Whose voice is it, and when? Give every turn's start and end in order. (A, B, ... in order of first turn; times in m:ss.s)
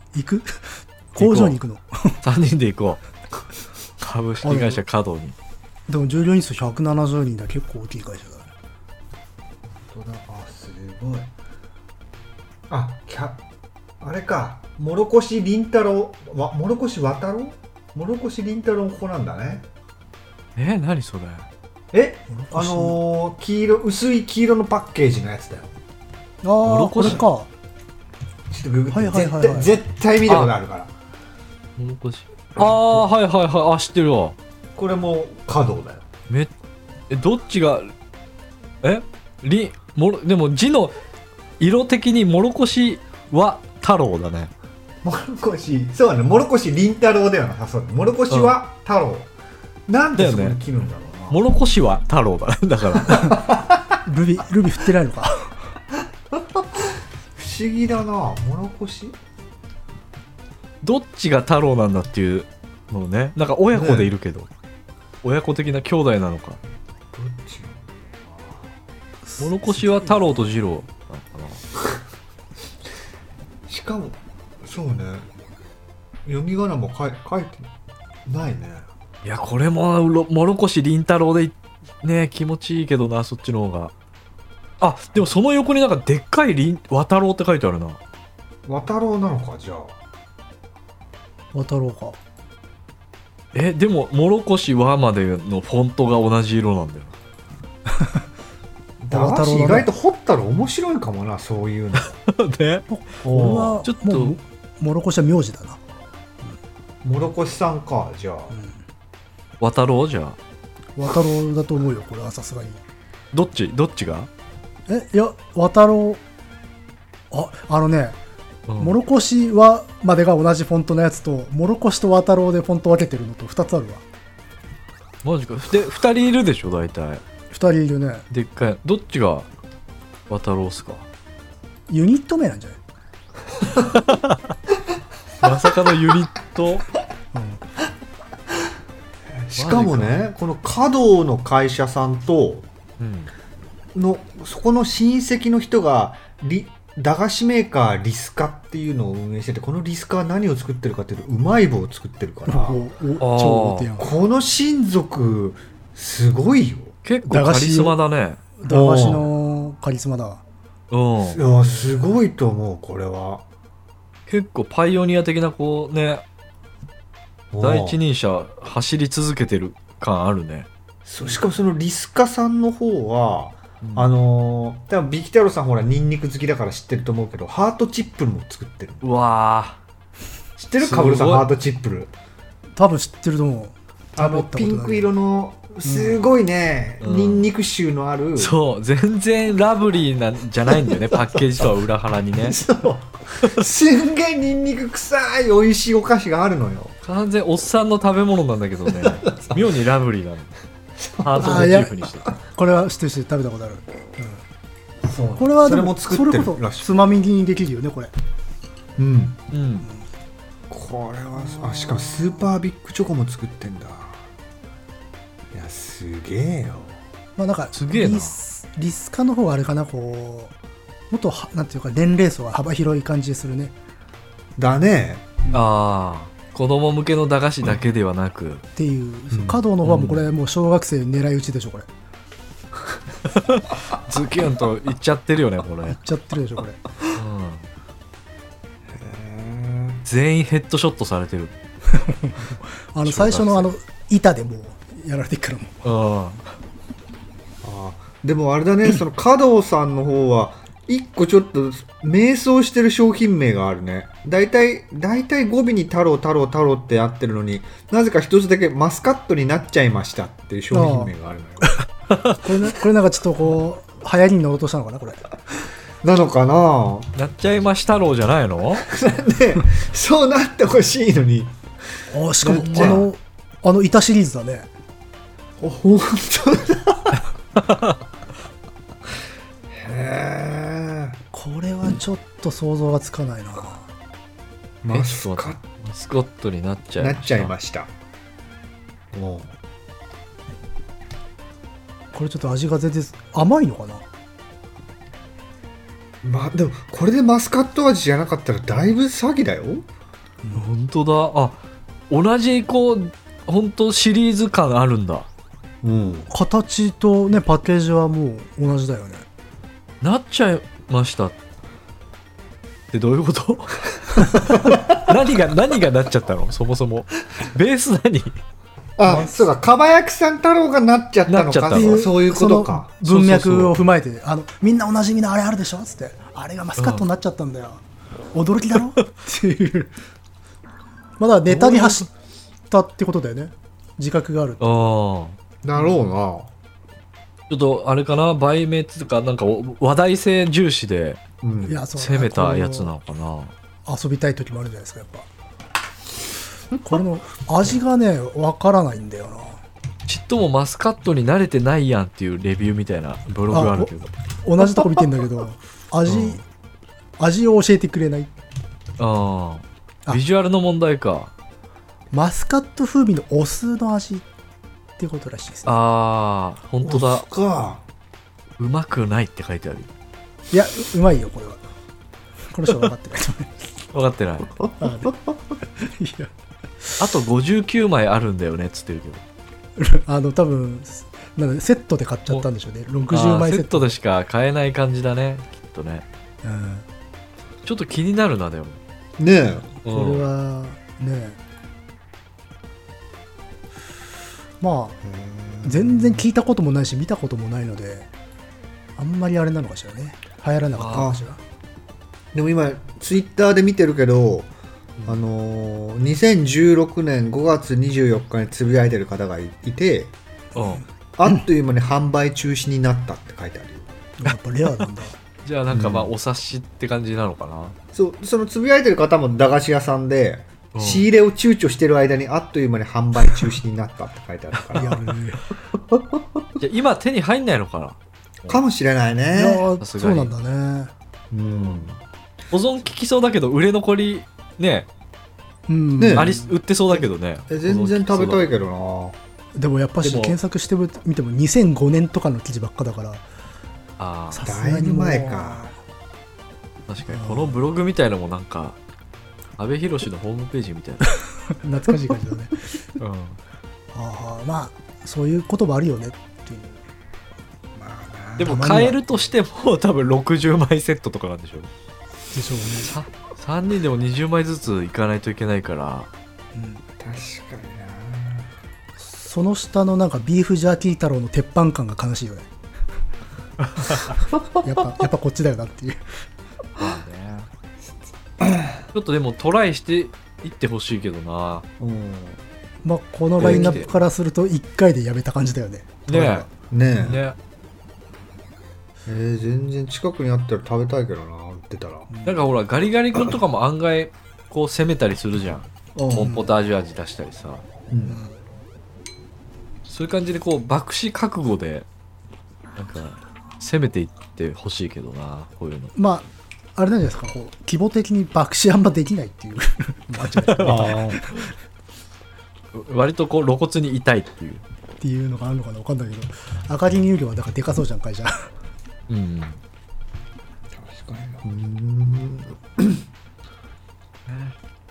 0:00.1-0:02.2 A
0:01.2-0:01.6 B
0:02.2-0:03.0 B
0:04.0-0:05.4 B
0:04.4-0:04.8 A
0:05.9-0:08.5 A
0:09.9-0:11.3 C
0:12.7-0:13.4 C
0:14.0-0:19.7 C
0:20.6-0:21.5 B
0:21.9-0:25.7 C
0:22.3-0:23.0 A
0:26.4-0:27.5 A
0:26.6-0:27.2 B
0:28.5-0:30.9 C
0:28.9-0:29.8 A
0:30.3-0:30.5 B
0:31.8-0:34.4 B
0:34.8-0:36.1 C
0:37.1-0:37.9 B
0:38.8-0:40.9 B
0:41.6-0:44.5 B
0:45.0-0:49.3 C
0:49.9-0:51.4 C
0:50.2-0:50.6 B
0:51.3-0:53.5 B
0:53.1-0:53.4 A
0:53.3-0:53.8 C
0:54.0-0:55.5 A
0:56.3-0:59.2 C
1:00.8-1:04.5 B
1:03.7-1:04.1 C
1:05.2-1:06.6 B
1:07.1-1:08.7 C
1:09.3-1:10.5 A
1:09.4-1:11.6 B
1:13.7-1:15.3 C
1:16.3-1:17.7 C
1:18.3-1:18.9 C
1:19.2-1:23.9 B
1:24.8-1:28.0 B
1:28.7-1:30.0 C
1:31.5-1:32.2 A
1:33.5-1:37.1 B
1:37.9-1:38.2 A
1:39.0-1:42.1 C
1:39.1-1:39.9 A
1:42.0-1:42.9 B
1:42.9-1:45.8 A
1:43.2-1:43.8 C
1:43.8-1:44.4 B
1:47.0-1:48.5 C
1:48.5-1:48.8 A
1:49.6-1:50.4 B
1:51.0-1:52.8 A
1:53.3-1:54.3 B
1:54.9-1:56.2 A
1:57.3-1:58.2 A
1:58.7-1:59.0 B
1:58.8-2:04.0 A
2:05.2-2:07.2 B
2:07.5-2:08.3 A
2:08.3-2:09.5 B
2:10.3-2:11.1 B
2:11.9-2:12.8 A
2:13.8-2:14.5 B
2:15.4-2:16.8 B
2:17.3-2:17.6 A
2:19.4-2:22.7 C
2:19.6-2:20.2 B
2:23.0-2:23.3 B
2:24.0-2:32.8 C
2:32.5-2:34.2 A
2:33.2-2:33.9 B
2:34.0-2:37.0 C
2:37.0-2:38.4 B
2:37.3-2:38.0 A
2:38.6-2:40.4 A
2:38.7-2:39.3 C
2:40.9-2:41.4 B
2:41.3-2:43.4 C
2:41.6-2:42.0 A
2:44.3-2:46.2 B
2:47.5-2:48.0 C
2:47.6-2:50.7 B
2:51.0-2:59.1 C
2:53.8-2:54.1 B
2:59.0-2:59.8 B
3:00.6-3:02.1 C
3:00.8-3:01.5 B
3:02.8-3:05.1 A
3:04.2-3:08.6 C
3:05.8-3:06.2 A
3:07.0-3:07.5 B
3:08.4-3:12.6 B
3:10.9-3:11.6 C
3:12.4-3:17.0 C
3:17.0-3:20.5 B
3:19.0-3:19.8 C
3:21.0-3:21.9 C
3:21.2-3:22.3 B
3:21.4-3:24.4 A
3:25.0-3:26.9 C
3:25.4-3:28.1 A
3:29.0-3:29.4 C
3:29.5-3:29.9 B
3:30.7-3:34.2 C
3:31.4-3:32.5 A
3:35.5-3:37.0 C
3:37.4-3:40.5 A
3:37.7-3:38.4 B
3:41.1-3:43.7 A
3:44.6-3:45.3 C
3:45.5-3:48.6 B
3:48.8-3:51.9 A
3:49.3-3:49.6 C
3:49.8-3:50.3 B
3:53.3-3:56.0 B
3:55.9-3:56.8 A
3:57.1-3:57.7 B
3:58.9-4:00.0 C
4:00.1-4:01.5 B
4:01.9-4:05.8 A
4:03.0-4:03.7 B
4:05.8-4:06.5 B
4:07.6-4:21.8 C
4:20.7-4:25.2 A
4:22.1-4:22.4 B
4:26.0-4:27.1 C
4:27.2-4:28.9 B
4:28.8-4:31.5 C
4:32.1-4:34.7 A
4:32.4-4:33.1 C
4:32.5-4:33.1 B
4:35.6-4:37.2 C
4:37.6-4:38.0 B
4:39.7-4:41.2 C
4:41.3-4:43.9 A
4:44.8-4:45.6 C
4:44.9-4:47.5 B
4:47.0-4:47.9 C
4:49.1-4:49.5 C
4:52.1-4:54.0 A
4:56.2-4:59.9 C
5:00.5-5:05.3 B
5:05.8-5:06.3 C
5:06.3-5:09.2 A
5:10.0-5:11.4 B
5:12.9-5:18.4 B
5:14.6-5:15.1 C
5:19.0-5:22.9 C
5:19.1-5:19.4 A
5:21.3-5:22.1 B
5:21.7-5:27.8 A
5:23.0-5:23.8 B
5:26.8-5:27.0 B
5:28.3-5:29.9 A
5:31.2-5:32.1 A
5:31.5-5:32.1 B
5:32.7-5:34.9 A
5:34.6-5:35.4 B
5:35.6-5:36.5 C
5:37.5-5:41.2 B
5:41.4-5:41.8 C
5:41.6-5:43.0 A
5:42.0-5:43.5 B
5:43.9-5:45.3 A
5:46.8-5:49.6 A
5:50.1-5:54.1 B
5:53.5-5:53.9 A
5:54.4-5:56.4 A
5:56.1-5:56.4 B
5:57.2-5:58.3 A
5:59.0-6:01.3 B
6:02.1-6:04.3 A
6:05.0-6:05.8 A
6:05.6-6:07.3 B
6:06.8-6:07.8 C
6:08.6-6:09.9 B
6:10.5-6:11.6 A
6:12.5-6:13.5 A
6:13.9-6:14.6 B
6:14.8-6:15.2 A
6:15.8-6:16.3 A
6:17.0-6:19.2 B
6:19.8-6:23.9 A
6:23.1-6:26.0 B
6:26.4-6:26.8 A
6:27.6-6:28.8 B
6:29.2-6:29.7 C
6:29.8-6:30.2 B
6:29.9-6:31.4 A
6:34.6-6:35.0 A
6:35.0-6:36.2 C
6:35.6-6:38.1 A
6:39.0-6:41.4 A
6:40.8-6:41.1 B
6:40.9-6:41.2 C
6:42.3-6:44.5 C
6:45.0-6:50.1 C
6:50.6-6:50.8 B
6:51.2-6:53.9 C
6:54.2-6:55.1 A
6:55.4-6:57.8 B
6:55.7-6:56.1 C
6:57.9-7:05.0 C
7:00.8-7:01.0 B
7:04.6-7:05.0 B
7:04.8-7:05.4 A
7:05.7-7:06.5 C
7:06.6-7:08.6 B
7:08.5-7:09.7 C
7:09.3-7:10.9 A
7:09.8-7:10.3 B
7:11.3-7:12.0 C
7:11.6-7:11.9 B
7:12.5-7:14.9 B
7:15.7-7:16.6 A
7:16.0-7:16.3 C
7:16.2-7:18.5 B
7:17.5-7:19.2 C
7:19.6-7:23.2 A
7:20.0-7:20.4 B
7:24.0-7:24.4 B
7:24.3-7:25.8 A
7:24.4-7:25.7 C
7:26.9-7:28.8 B
7:27.1-7:27.6 A
7:29.6-7:31.2 B
7:31.6-7:32.7 A
7:33.0-7:33.4 B
7:33.9-7:36.8 A
7:37.8-7:38.7 C
7:38.4-7:41.7 B
7:38.4-7:39.0 A
7:42.3-7:43.0 A
7:42.9-7:46.1 B
7:46.5-7:46.8 A
7:47.0-7:48.5 C
7:49.0-7:52.5 A
7:53.7-7:54.0 B
7:54.6-7:56.0 A
7:56.8-7:57.5 B
7:58.4-7:58.8 C
7:58.9-8:01.7 B
8:01.8-8:02.4 C
8:02.8-8:06.5 A
8:03.4-8:03.9 B
8:03.4-8:03.9 C
8:06.1-8:06.5 B
8:06.7-8:07.2 C
8:07.0-8:07.4 B
8:09.1-8:12.1 C
8:12.1-8:12.5 A
8:12.2-8:17.6 B
8:16.0-8:16.4 C
8:16.2-8:16.5 A
8:17.9-8:18.2 C
8:18.1-8:18.4 A
8:19.9-8:21.9 B
8:22.8-8:25.9 B
8:26.0-8:31.5 A
8:30.3-8:31.2 B
8:30.6-8:31.2 C
8:32.7-8:34.6 B
8:35.0-8:38.5 A
8:39.1-8:39.6 B
8:40.7-8:43.0 C
8:44.3-8:44.6 B